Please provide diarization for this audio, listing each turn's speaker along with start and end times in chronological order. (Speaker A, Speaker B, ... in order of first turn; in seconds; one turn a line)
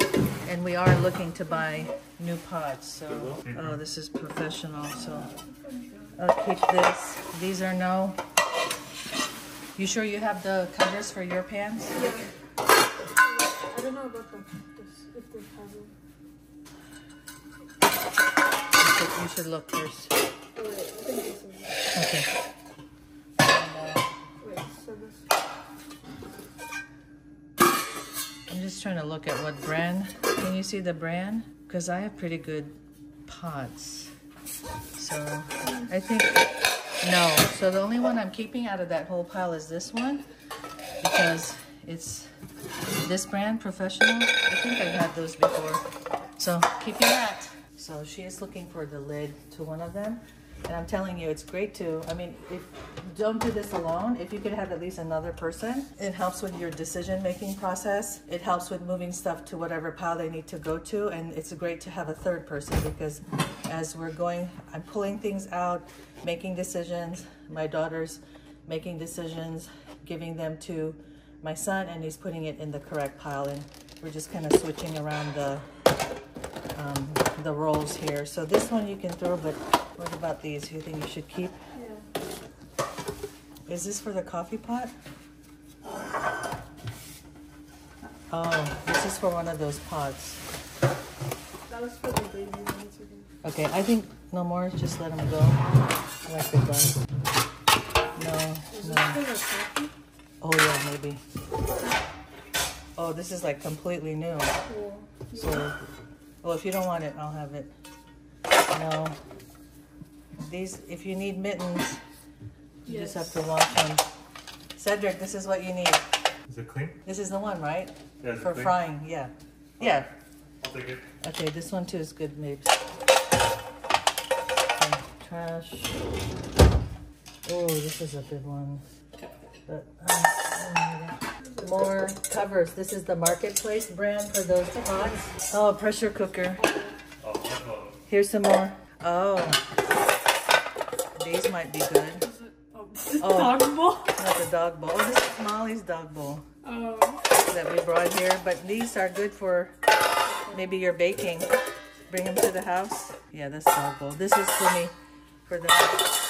Speaker A: 0.4-5.3
Speaker B: 3.2-3.6
Speaker C: 5.3-6.1
Speaker A: 6.2-8.2
Speaker A: 9.8-12.2
Speaker C: 11.9-12.3
Speaker C: 13.2-15.9
Speaker A: 18.8-20.1
Speaker C: 20.5-21.8
Speaker A: 21.9-22.3
Speaker A: 23.4-24.1
Speaker C: 24.4-25.3
Speaker A: 28.5-34.1
Speaker A: 35.0-36.5
Speaker A: 37.0-40.2
Speaker A: 41.0-42.3
Speaker A: 43.0-45.8
Speaker A: 46.4-75.7
Speaker A: 76.7-81.6
Speaker C: 81.7-82.1
Speaker A: 83.7-84.9
Speaker A: 88.3-90.4
Speaker C: 91.7-93.3
Speaker A: 93.4-95.6
Speaker A: 96.2-97.0
Speaker A: 98.2-99.3
Speaker C: 98.7-99.9
Speaker A: 100.4-101.2
Speaker A: 103.0-104.6
Speaker C: 104.7-105.7
Speaker A: 105.3-105.8
Speaker A: 106.4-107.7
Speaker A: 108.7-109.2
Speaker A: 110.4-112.0
Speaker A: 112.8-114.0
Speaker C: 112.8-113.4
Speaker A: 114.7-116.0
Speaker B: 116.5-117.0
Speaker A: 117.0-120.1
Speaker B: 118.2-118.7
Speaker B: 120.6-121.0
Speaker A: 121.2-122.8
Speaker A: 124.7-126.0
Speaker A: 127.4-128.8
Speaker A: 129.7-136.7
Speaker C: 131.5-131.8
Speaker C: 136.6-137.0
Speaker B: 137.2-137.9
Speaker A: 138.1-139.6
Speaker A: 141.2-142.3
Speaker C: 142.3-144.1
Speaker A: 143.2-146.4
Speaker C: 146.6-147.2
Speaker A: 147.5-149.7
Speaker A: 150.5-151.5
Speaker A: 152.1-156.1